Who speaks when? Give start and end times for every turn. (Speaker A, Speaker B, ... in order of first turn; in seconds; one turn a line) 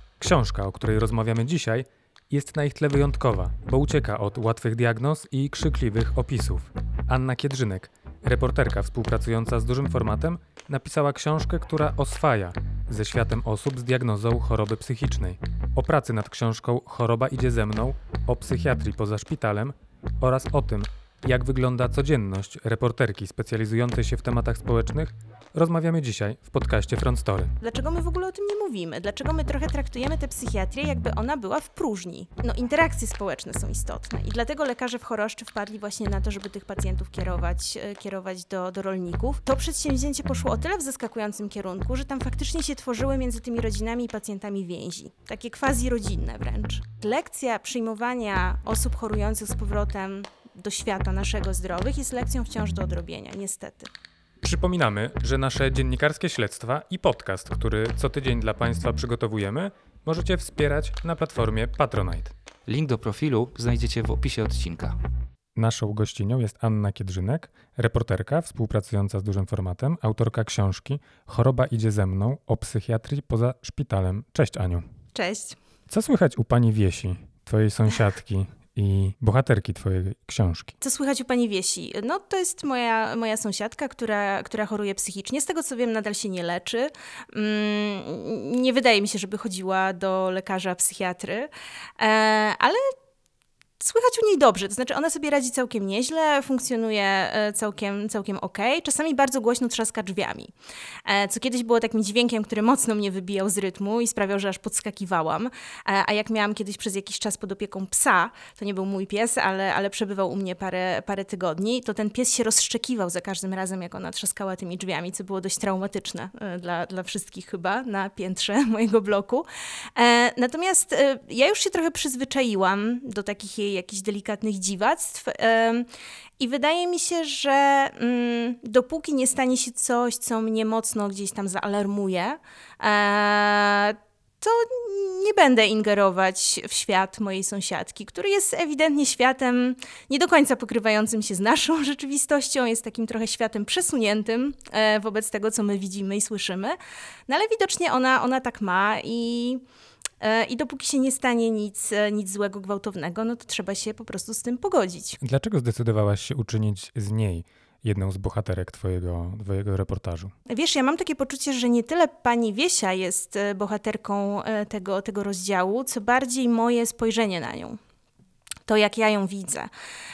Speaker A: 0.2-27.5
Speaker B: 27.6-53.9
Speaker A: 54.4-62.3
Speaker C: 62.7-65.0
Speaker A: 65.5-74.8
Speaker B: 75.1-75.6
Speaker A: 75.9-80.7
Speaker B: 80.8-92.9
Speaker B: 93.8-100.5
Speaker B: 101.0-125.9
Speaker B: 126.4-146.8
Speaker B: 147.3-149.6
Speaker B: 150.2-155.2
Speaker A: 155.2-160.3
Speaker B: 160.5-167.8
Speaker B: 168.7-169.7